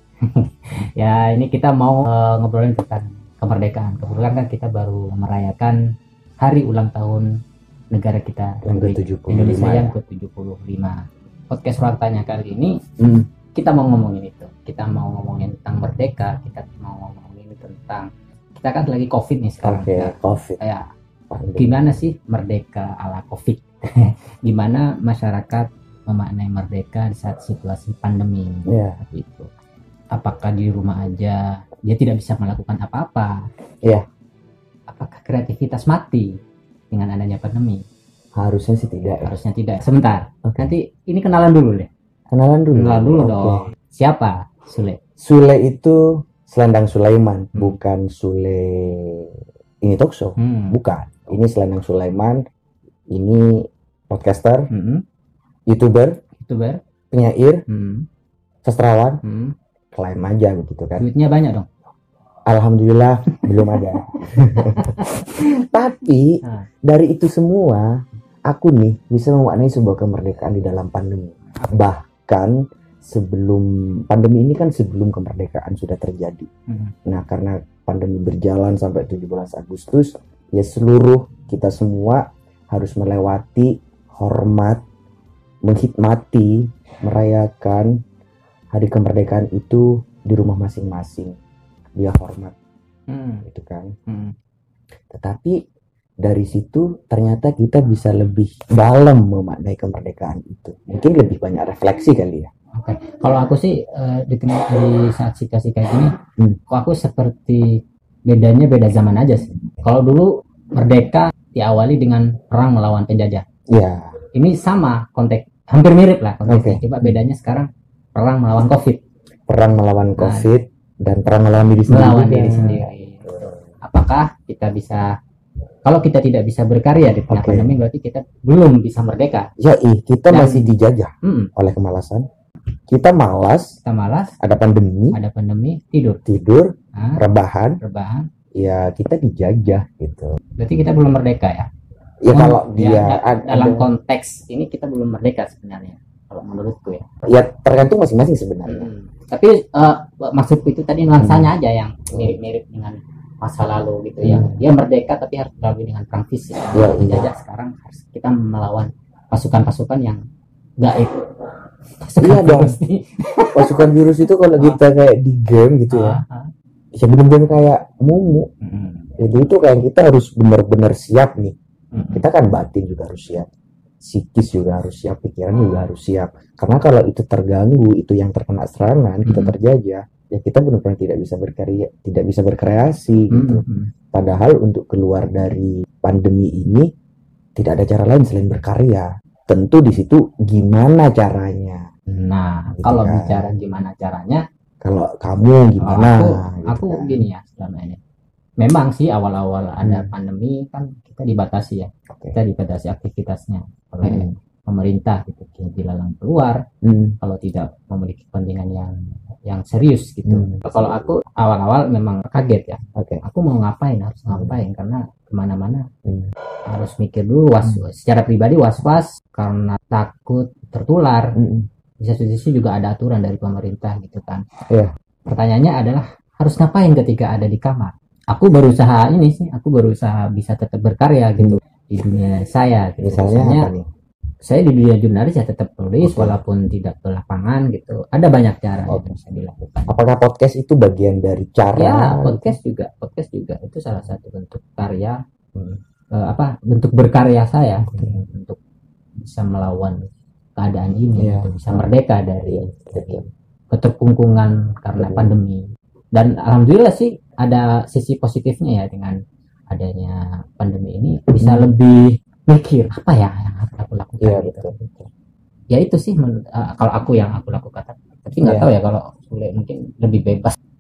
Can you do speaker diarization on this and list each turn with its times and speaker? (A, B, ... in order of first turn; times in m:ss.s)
0:00.3-0:05.8 A
0:06.4-0:07.3 A
0:07.9-0:12.8 A
0:08.6-0:09.9 B
0:13.0-0:13.3 B
0:13.6-0:20.8 A
0:19.6-0:20.6 B
0:21.3-0:21.9 B
0:21.6-0:29.5 A
0:28.7-0:29.0 B
0:30.2-0:33.4 A
0:34.9-0:36.4 A
0:36.9-0:37.8 A
0:38.4-0:39.3 B
0:39.2-0:41.9 A
0:40.4-0:40.7 B
0:42.3-0:43.7 B
0:42.8-0:45.0 A
0:45.2-0:52.4 B
0:50.4-0:50.8 A
0:53.1-0:54.7 B
0:54.7-0:55.0 A
0:55.7-0:56.2 B
0:56.4-0:56.8 A
0:57.1-0:57.6 B
0:57.7-0:58.1 A
0:58.6-0:59.2 B
0:59.2-0:59.5 A
0:59.9-1:01.0 B
1:01.0-1:01.7 A
1:02.5-1:07.9 B
1:03.7-1:04.0 A
1:04.6-1:05.2 A
1:06.4-1:06.7 A
1:08.5-1:16.5 B
1:11.6-1:11.8 A
1:16.7-1:16.9 A
1:17.1-1:24.8 B
1:25.6-1:27.9 B
1:28.7-1:31.4 B
1:32.0-1:32.5 B
1:33.1-1:33.4 A
1:33.4-1:33.9 B
1:34.1-1:34.4 A
1:35.1-1:35.6 B
1:36.2-1:42.5 B
1:42.8-1:46.1 A
1:46.7-1:53.4 A
1:53.7-1:54.2 B
1:54.3-1:59.0 A
1:56.5-1:56.9 B
1:59.5-2:03.6 B
2:00.2-2:00.5 A
2:01.9-2:05.1 A
2:05.8-2:09.5 A
2:07.3-2:07.7 B
2:09.6-2:12.3 B
2:10.3-2:10.7 A
2:11.2-2:11.5 A
2:12.9-2:13.8 B
2:13.8-2:14.4 A
2:14.4-2:15.2 B
2:15.1-2:16.2 A
2:16.3-2:17.8 B
2:16.9-2:17.2 A
2:17.8-2:18.3 A
2:18.6-2:20.3 B
2:20.6-2:21.7 A
2:22.2-2:23.9 B
2:22.3-2:27.0 A
2:27.3-2:28.9 B
2:28.7-2:40.2 A
2:31.2-2:31.5 B
2:34.2-2:34.6 B
2:36.7-2:37.3 B
2:40.8-2:41.2 A
2:42.0-2:43.9 A
2:42.2-2:42.7 B
2:43.6-2:46.2 B
2:45.9-2:46.5 A
2:47.0-2:48.5 B
2:48.6-2:49.1 A
2:49.2-2:51.6 B
2:51.9-2:52.2 A
2:52.1-2:53.5 B
2:54.0-3:06.9 B
2:59.2-2:59.6 A
3:03.3-3:03.9 A
3:07.6-3:11.9 B
3:12.1-3:14.4 A
3:12.8-3:13.5 B
3:14.8-3:17.2 B
3:15.8-3:18.0 A
3:18.6-3:26.6 A
3:19.8-3:20.1 B
3:22.1-3:22.4 B
3:24.0-3:24.4 B
3:26.8-3:27.2 B
3:27.2-3:29.0 A
3:29.5-3:35.9 A
3:30.2-3:31.1 B
3:33.0-3:33.2 B
3:34.3-3:34.6 B
3:36.7-3:41.3 A
3:41.4-3:41.7 B
3:42.0-3:44.4 A
3:45.3-3:53.7 A
3:53.0-3:53.9 B
3:54.4-3:59.9 A
3:56.0-3:56.4 B
3:58.9-3:59.2 B
3:59.9-4:02.6 B
4:01.8-4:05.2 A
4:06.2-4:08.6 A
4:07.8-4:08.2 B
4:09.2-4:15.6 A
4:11.2-4:11.9 B
4:12.5-4:13.2 B
4:15.0-4:15.3 B
4:16.1-4:19.2 A
4:19.7-4:24.7 A
4:21.4-4:21.7 B
4:24.2-4:25.1 B
4:25.7-4:30.6 A